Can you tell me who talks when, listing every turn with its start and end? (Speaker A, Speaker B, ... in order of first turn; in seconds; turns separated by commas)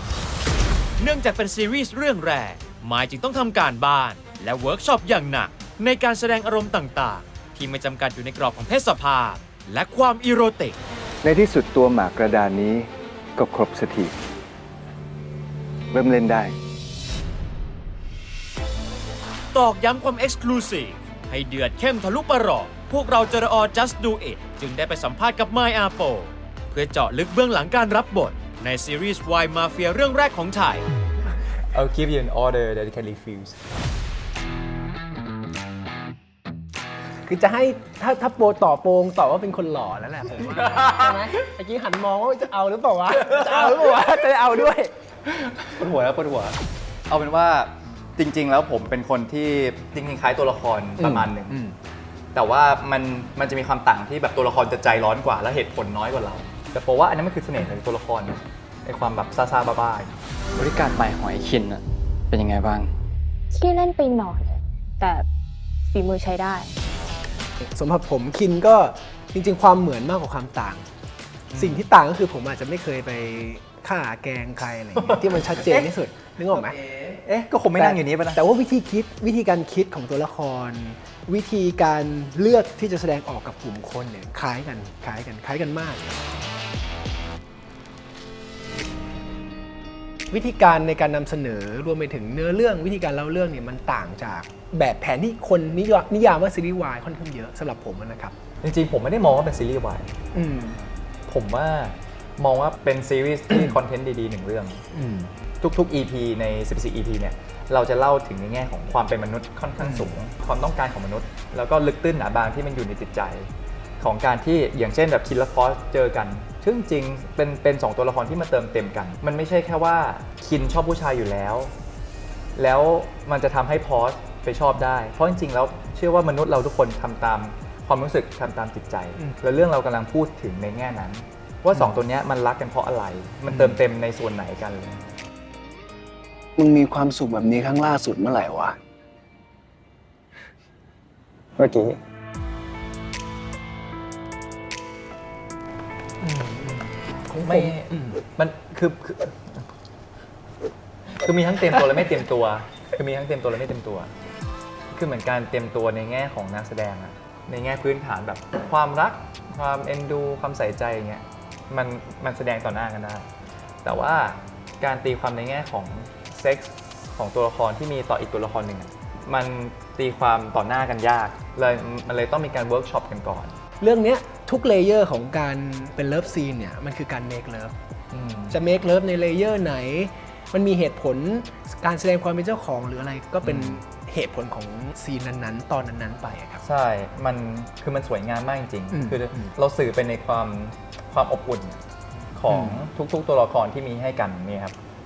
Speaker A: 1.0-10.8, Speaker B: 11.2-14.1, Speaker B: 15.9-16.5, Speaker A: 19.5-30.9, Speaker C: 31.7-33.5, Speaker D: 37.2-44.9, Speaker C: 40.6-41.2, Speaker C: 43.4-43.8, Speaker C: 45.3-46.6, Speaker C: 47.1-51.6, Speaker D: 51.0-51.7, Speaker C: 52.3-60.1, Speaker E: 60.6-62.9, Speaker F: 63.5-65.3, Speaker F: 65.9-66.7, Speaker D: 67.6-70.8, Speaker C: 71.5-71.8, Speaker D: 71.5-76.8, Speaker C: 75.1-75.9, Speaker C: 77.2-78.4, Speaker D: 77.8-86.2, Speaker D: 90.3-98.3, Speaker C: 98.6-100.1, Speaker D: 100.3-100.8, Speaker C: 101.3-104.8, Speaker D: 104.9-105.3, Speaker C: 105.6-121.7, Speaker D: 109.8-110.0, Speaker C: 122.5-135.0, Speaker G: 136.6-138.8, Speaker D: 146.2-148.2, Speaker C: 147.4-149.7, Speaker C: 151.2-154.1, Speaker C: 154.9-163.3, Speaker C: 163.8-173.6, Speaker D: 173.8-177.7, Speaker C: 178.1-178.6, Speaker D: 178.5-186.6, Speaker C: 183.4-183.8, Speaker C: 186.6-191.8, Speaker D: 188.9-189.4, Speaker C: 192.3-194.8, Speaker D: 192.5-192.8